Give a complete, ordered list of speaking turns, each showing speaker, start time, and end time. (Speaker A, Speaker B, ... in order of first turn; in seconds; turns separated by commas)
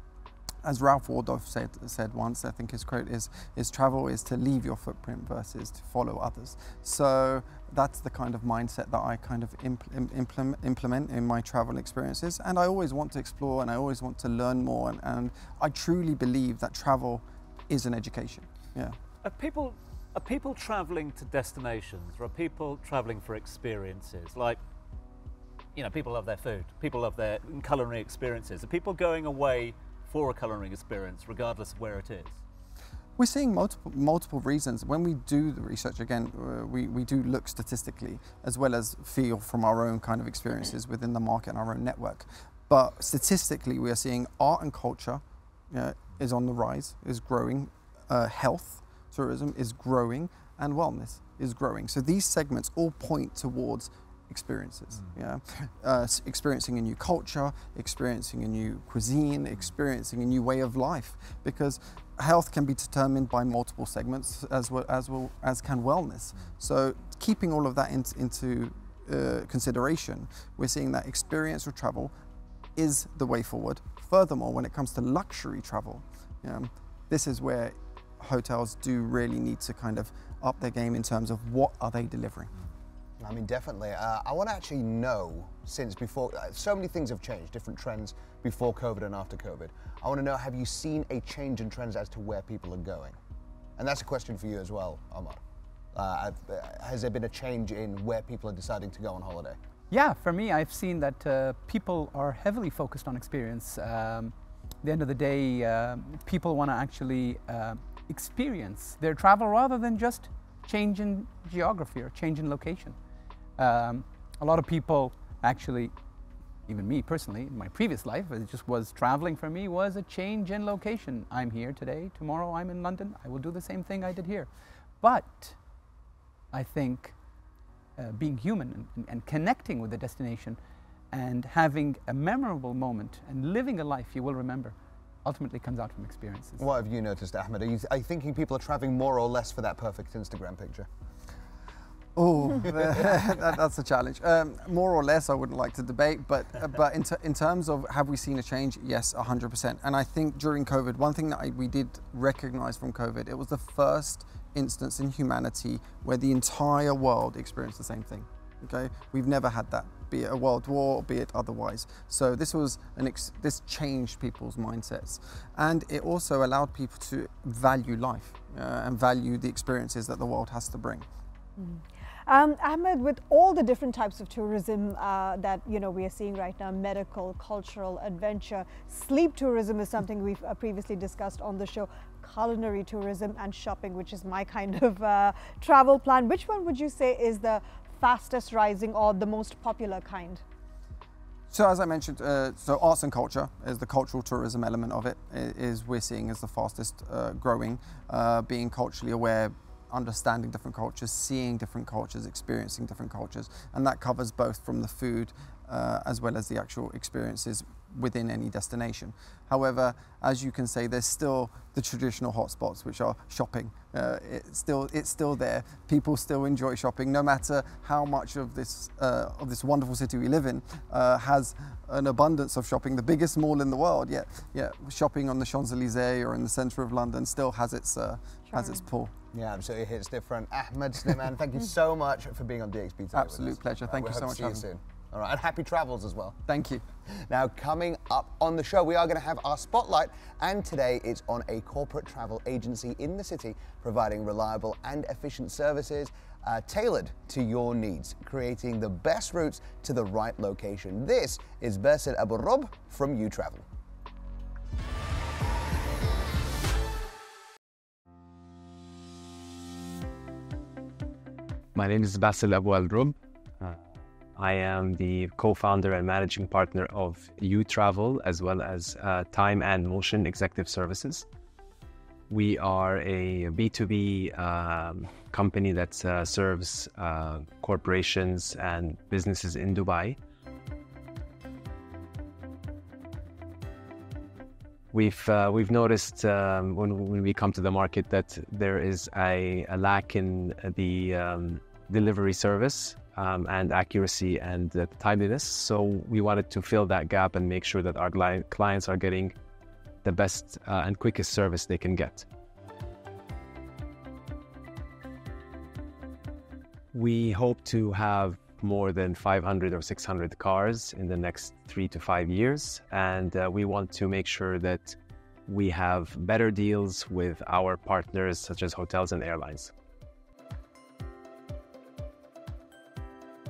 Speaker A: 0.6-18.9, Speaker B: 19.2-24.6, Speaker B: 25.8-32.4, Speaker A: 33.2-72.1, Speaker A: 72.8-82.5, Speaker C: 83.2-93.2, Speaker C: 93.8-95.4, Speaker C: 95.9-99.5, Speaker D: 99.9-113.0, Speaker D: 113.6-115.9, Speaker D: 116.7-125.6, Speaker D: 126.5-127.1, Speaker D: 128.0-130.6, Speaker D: 131.1-136.6, Speaker C: 136.6-140.9, Speaker A: 142.1-171.0, Speaker E: 171.6-190.4, Speaker A: 191.5-229.1, Speaker E: 228.5-228.8, Speaker C: 229.3-236.3, Speaker A: 233.1-234.7, Speaker A: 236.4-236.8, Speaker C: 237.3-253.6, Speaker F: 261.8-263.8, Speaker F: 264.4-271.2, Speaker F: 272.3-280.2, Speaker F: 284.9-299.3, Speaker F: 300.0-302.2, Speaker F: 306.9-314.9, Speaker F: 315.5-319.7